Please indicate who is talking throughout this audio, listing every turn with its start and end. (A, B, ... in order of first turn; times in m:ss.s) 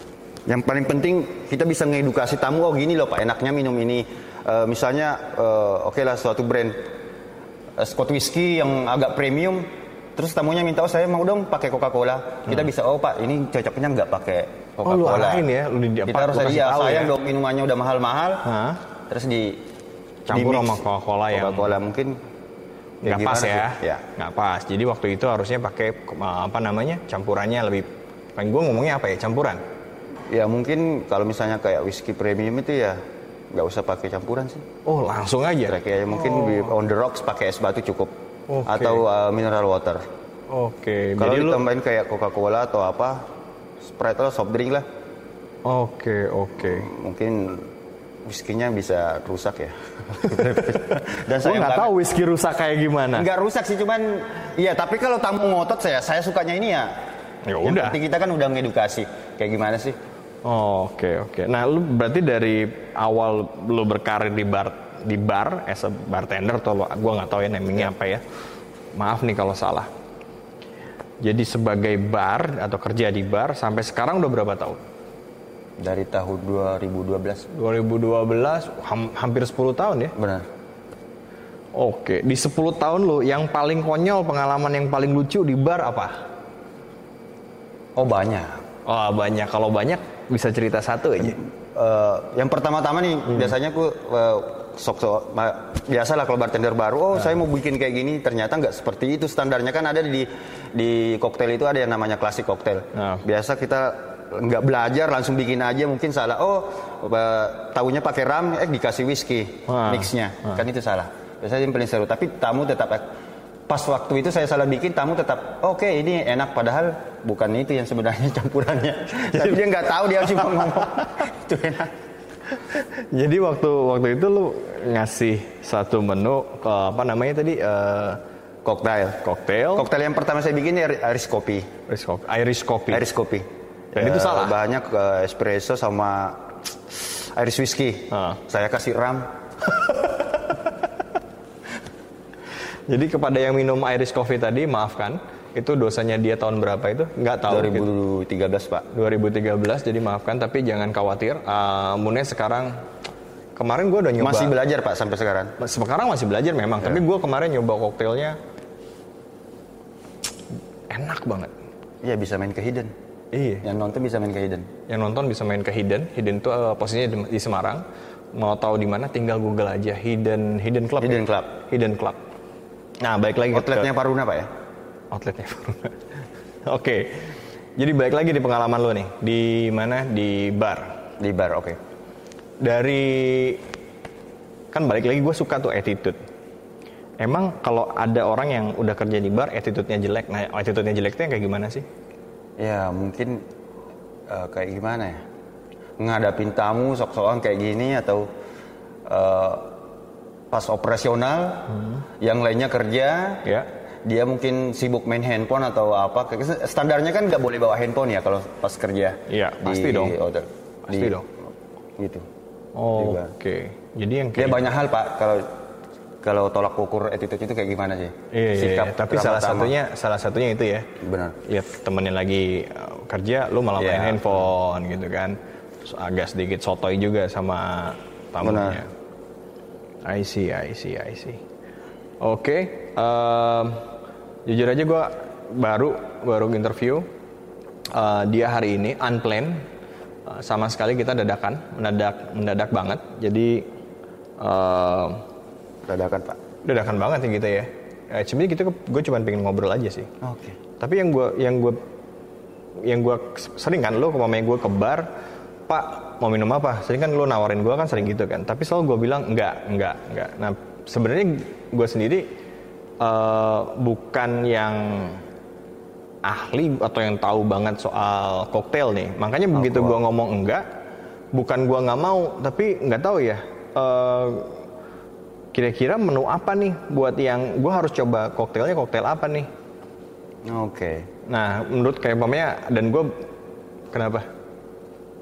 0:00.5-0:06.8 A
0:07.8-0:15.5 A
0:14.8-0:17.1 B
0:16.1-0:18.5 A
0:18.4-0:18.8 B
0:19.1-0:19.6 A
0:20.3-0:21.7 B
0:20.3-0:22.2 A
0:23.0-0:29.6 B
0:23.0-0:24.0 A
0:30.3-0:33.0 A
0:33.5-0:34.6 A
0:34.8-0:36.7 B
0:35.7-0:38.1 A
0:38.5-0:39.0 B
0:38.7-0:40.0 A
0:40.5-0:41.6 B
0:41.2-0:43.2 A
0:43.8-0:44.8 A
0:45.6-0:46.9 B
0:46.6-0:47.7 A
0:48.3-0:51.9 A
0:51.4-0:53.3 B
0:53.1-0:56.9 A
0:57.5-0:58.0 B
0:57.6-1:00.0 A
1:00.4-1:08.2 B
1:09.0-1:09.9 B
1:11.2-1:14.8 B
1:15.8-1:17.5 A
1:17.5-1:20.1 B
1:20.2-1:20.4 A
1:21.8-1:26.2 B
1:28.0-1:28.6 A
1:28.9-1:31.4 B
1:31.7-1:53.0 A
1:43.0-1:43.2 B
1:49.7-1:50.5 B
1:53.7-2:01.9 A
2:00.3-2:00.8 B
2:02.7-2:08.2 B
2:08.6-2:11.7 A
2:09.2-2:09.9 B
2:11.9-2:13.0 B
2:12.9-2:19.3 A
2:14.0-2:14.6 B
2:18.1-2:18.4 B
2:22.9-2:27.9 B
2:27.5-2:28.9 A
2:28.9-2:32.7 B
2:33.6-2:34.5 B
2:34.2-2:35.5 A
2:35.6-2:38.4 B
2:40.9-2:41.5 B
2:42.0-2:42.9 A
2:43.3-2:43.7 B
2:43.6-2:44.7 A
2:44.9-2:47.8 B
2:48.3-2:52.2 B
2:51.0-2:51.5 A
2:53.0-2:53.9 B
2:53.5-2:54.5 A
2:55.1-2:55.9 B
2:56.7-3:00.9 B
3:01.2-3:01.8 A
3:02.6-3:03.6 B
3:04.7-3:06.2 B
3:07.2-3:11.8 B
3:12.6-3:13.4 A
3:14.3-3:15.2 A
3:16.0-3:18.3 A
3:19.1-3:19.7 A
3:20.5-3:23.5 A
3:24.0-3:31.3 A
3:29.3-3:30.2 B
3:30.9-3:31.2 B
3:32.0-3:32.2 A
3:32.8-3:34.7 B
3:32.9-3:33.3 A
3:34.4-3:35.4 A
3:36.2-3:39.8 A
3:38.3-3:40.9 B
3:41.0-3:41.4 A
3:41.5-3:48.9 B
3:43.8-3:44.5 A
3:48.4-3:48.8 A
3:50.0-3:51.4 B
3:52.2-3:53.8 B
3:54.5-3:57.0 B
3:57.9-3:59.6 B
4:00.3-4:03.7 B
4:04.4-4:05.2 B
4:05.9-4:06.4 A
4:06.6-4:10.1 B
4:10.2-4:10.6 A
4:10.8-4:11.8 B
4:12.8-4:15.1 B
4:15.7-4:22.3 B
4:23.0-4:25.2 B
4:26.2-4:30.6 B
4:29.6-4:30.0 A
4:31.3-4:34.6 B
4:35.5-4:39.5 B
4:40.5-4:41.1 A
4:41.3-4:43.1 B
4:43.9-4:44.3 B